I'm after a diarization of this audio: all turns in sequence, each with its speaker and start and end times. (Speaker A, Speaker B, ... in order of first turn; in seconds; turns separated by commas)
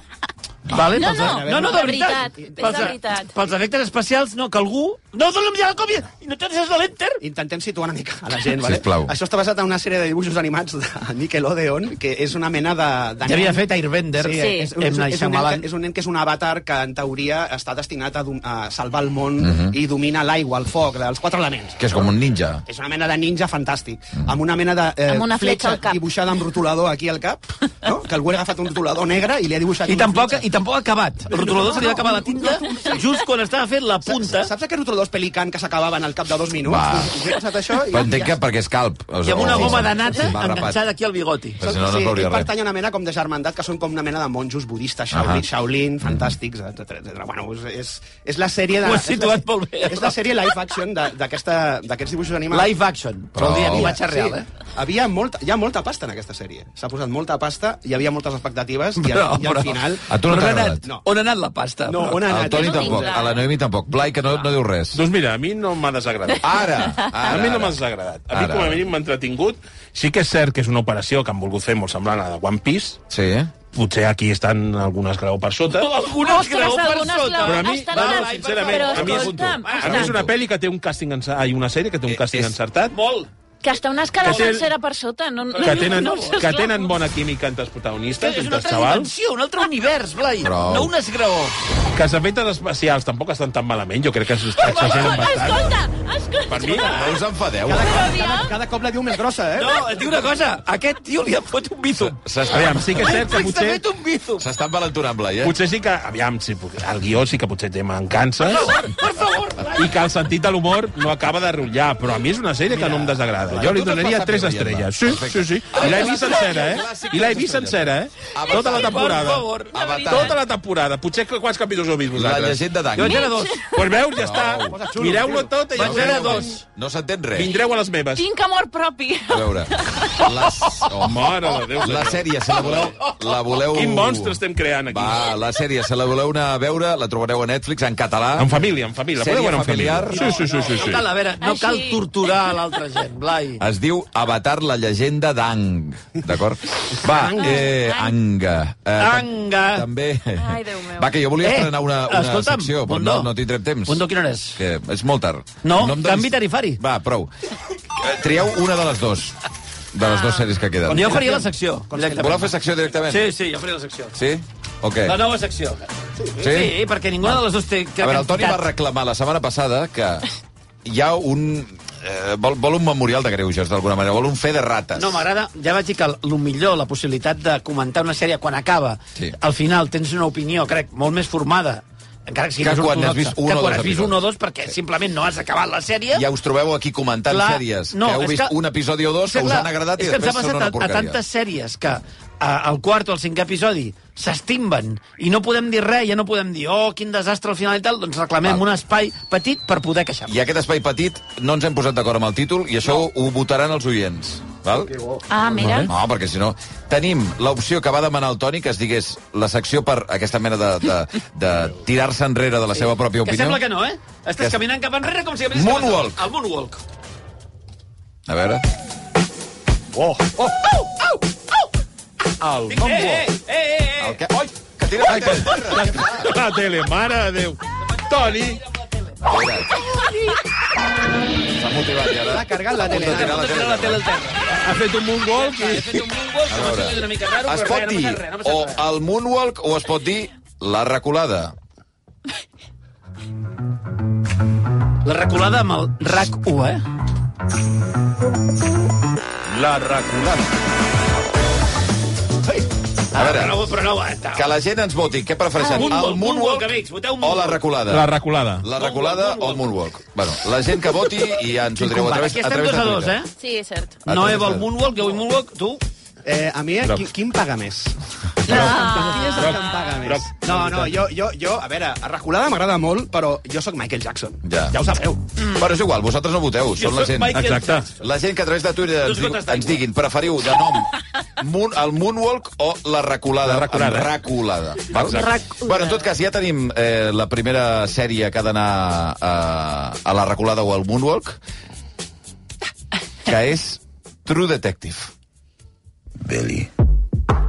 Speaker A: 0.7-7.2, Speaker B: 0.8-2.9, Speaker C: 0.9-3.3, Speaker B: 7.2-22.1, Speaker D: 8.6-9.1, Speaker A: 13.2-15.7, Speaker C: 14.3-14.7, Speaker D: 19.4-19.8, Speaker D: 21.8-22.6, Speaker B: 22.6-30.5, Speaker C: 25.1-26.0, Speaker A: 29.9-34.5, Speaker B: 31.3-33.0, Speaker B: 34.0-38.2, Speaker D: 36.6-37.3, Speaker D: 37.9-40.8, Speaker A: 39.2-41.6, Speaker B: 39.4-40.3, Speaker D: 41.6-42.5, Speaker B: 41.6-52.7, Speaker D: 45.1-45.5, Speaker D: 46.0-46.3, Speaker A: 48.8-50.2, Speaker A: 52.5-54.5, Speaker D: 53.4-54.0, Speaker B: 53.7-60.1, Speaker A: 59.0-62.2, Speaker D: 60.1-60.9, Speaker B: 60.7-61.0, Speaker B: 61.9-63.3, Speaker D: 62.2-65.0, Speaker C: 62.4-63.5, Speaker E: 64.9-73.0, Speaker D: 66.4-67.8, Speaker D: 68.3-68.8, Speaker D: 73.1-73.5, Speaker E: 73.7-75.9, Speaker A: 75.7-80.1, Speaker C: 76.2-80.2, Speaker E: 77.4-82.9, Speaker D: 79.9-80.3, Speaker D: 82.1-82.5, Speaker A: 82.9-83.3, Speaker C: 83.6-86.9, Speaker E: 84.2-84.7, Speaker A: 84.2-84.6, Speaker A: 85.5-86.4, Speaker E: 85.6-89.1, Speaker A: 88.2-91.5, Speaker D: 90.4-90.9, Speaker E: 91.9-95.8, Speaker A: 94.7-95.1, Speaker C: 94.7-96.9, Speaker E: 96.5-97.1, Speaker D: 96.8-98.0, Speaker B: 97.6-99.8, Speaker C: 97.8-98.5, Speaker A: 99.6-104.4, Speaker D: 102.0-103.2, Speaker E: 102.5-103.8, Speaker D: 104.4-105.5, Speaker E: 105.4-108.7, Speaker A: 108.4-109.9, Speaker E: 109.7-119.5, Speaker D: 113.5-120.3, Speaker A: 118.5-119.8, Speaker C: 119.7-120.3, Speaker E: 120.1-122.6, Speaker D: 122.1-123.3, Speaker A: 123.0-123.6, Speaker C: 123.0-123.6, Speaker E: 123.7-126.6, Speaker D: 124.1-124.8, Speaker B: 124.7-125.9, Speaker A: 125.7-126.6, Speaker D: 125.8-127.5, Speaker E: 127.3-128.2, Speaker C: 128.2-130.3, Speaker D: 129.3-138.6, Speaker E: 130.9-132.9, Speaker E: 133.7-135.2, Speaker E: 138.4-141.1, Speaker D: 139.2-140.3, Speaker A: 140.1-143.6, Speaker C: 141.4-142.0, Speaker D: 143.6-157.3, Speaker C: 147.1-148.1, Speaker A: 149.0-149.9, Speaker C: 150.4-151.1, Speaker A: 151.4-153.3, Speaker A: 153.8-154.6, Speaker A: 155.6-156.8, Speaker D: 157.9-159.4, Speaker D: 159.9-161.3, Speaker C: 160.0-160.4, Speaker B: 160.8-162.5, Speaker A: 160.9-162.5, Speaker D: 162.1-163.3, Speaker A: 163.0-164.2, Speaker D: 164.1-165.2, Speaker A: 165.0-168.7, Speaker D: 166.4-167.4, Speaker D: 168.0-170.3, Speaker D: 170.8-175.2, Speaker A: 174.9-186.3, Speaker D: 182.6-184.2, Speaker D: 186.1-191.2, Speaker A: 187.3-188.6, Speaker A: 189.2-200.3, Speaker D: 200.3-204.9, Speaker C: 205.3-205.9, Speaker D: 205.8-213.6, Speaker A: 213.2-216.8, Speaker D: 215.5-216.2, Speaker D: 218.3-218.6, Speaker E: 220.1-220.4, Speaker E: 222.4-223.3, Speaker A: 222.7-224.2, Speaker D: 224.0-226.4, Speaker E: 225.1-228.6, Speaker D: 229.2-229.8, Speaker A: 229.8-230.3, Speaker D: 231.5-234.0, Speaker B: 232.3-233.5, Speaker A: 232.8-234.6, Speaker E: 234.6-235.9, Speaker A: 235.3-238.9, Speaker D: 236.5-241.5, Speaker A: 245.0-246.8, Speaker A: 253.1-254.5, Speaker D: 253.1-253.7, Speaker D: 254.3-258.1, Speaker A: 255.6-257.6, Speaker C: 255.7-256.0, Speaker E: 257.9-258.7, Speaker D: 258.6-263.2, Speaker A: 258.8-259.7, Speaker A: 261.5-263.3, Speaker C: 263.4-264.0, Speaker D: 264.1-264.7, Speaker A: 264.1-265.8, Speaker B: 266.2-275.2, Speaker C: 268.5-270.0, Speaker E: 268.5-270.9, Speaker A: 268.9-269.1, Speaker D: 274.4-274.8, Speaker D: 275.4-291.4, Speaker A: 276.7-277.9, Speaker E: 277.3-277.9, Speaker A: 279.0-279.8, Speaker E: 283.4-284.1, Speaker E: 284.9-285.3, Speaker C: 285.0-286.1, Speaker D: 293.2-295.1